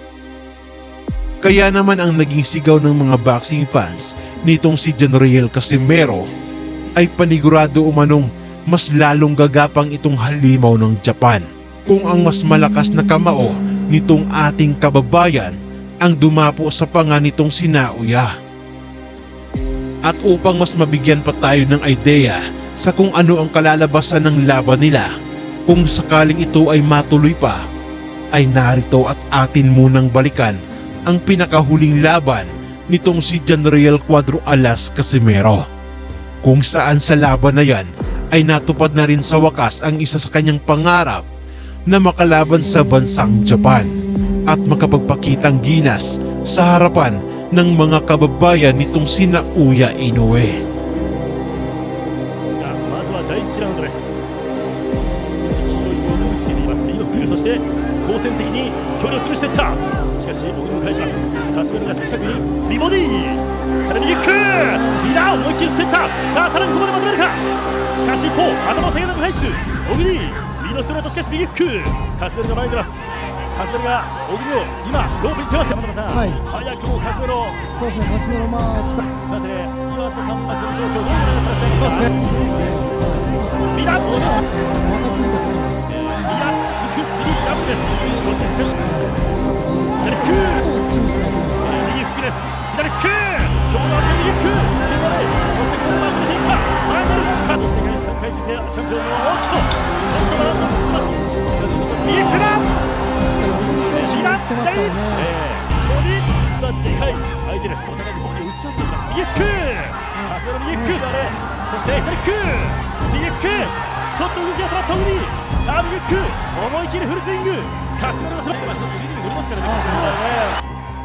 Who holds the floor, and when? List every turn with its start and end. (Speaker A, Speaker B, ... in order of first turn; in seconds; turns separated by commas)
Speaker A: 1.4-6.3, Speaker A: 7.0-18.3, Speaker A: 20.1-25.1, Speaker A: 25.7-27.6, Speaker A: 28.3-35.6, Speaker A: 36.4-41.3, Speaker A: 41.9-43.9, Speaker A: 44.5-50.6, Speaker B: 52.6-54.3, Speaker B: 55.3-77.7, Speaker C: 76.1-76.4, Speaker C: 77.7-79.0, Speaker B: 79.2-82.1, Speaker C: 81.9-85.8, Speaker B: 83.7-84.5, Speaker B: 85.9-88.9, Speaker C: 88.8-91.9, Speaker B: 90.0-90.7, Speaker B: 91.6-102.8, Speaker C: 103.2-105.3, Speaker B: 103.9-120.7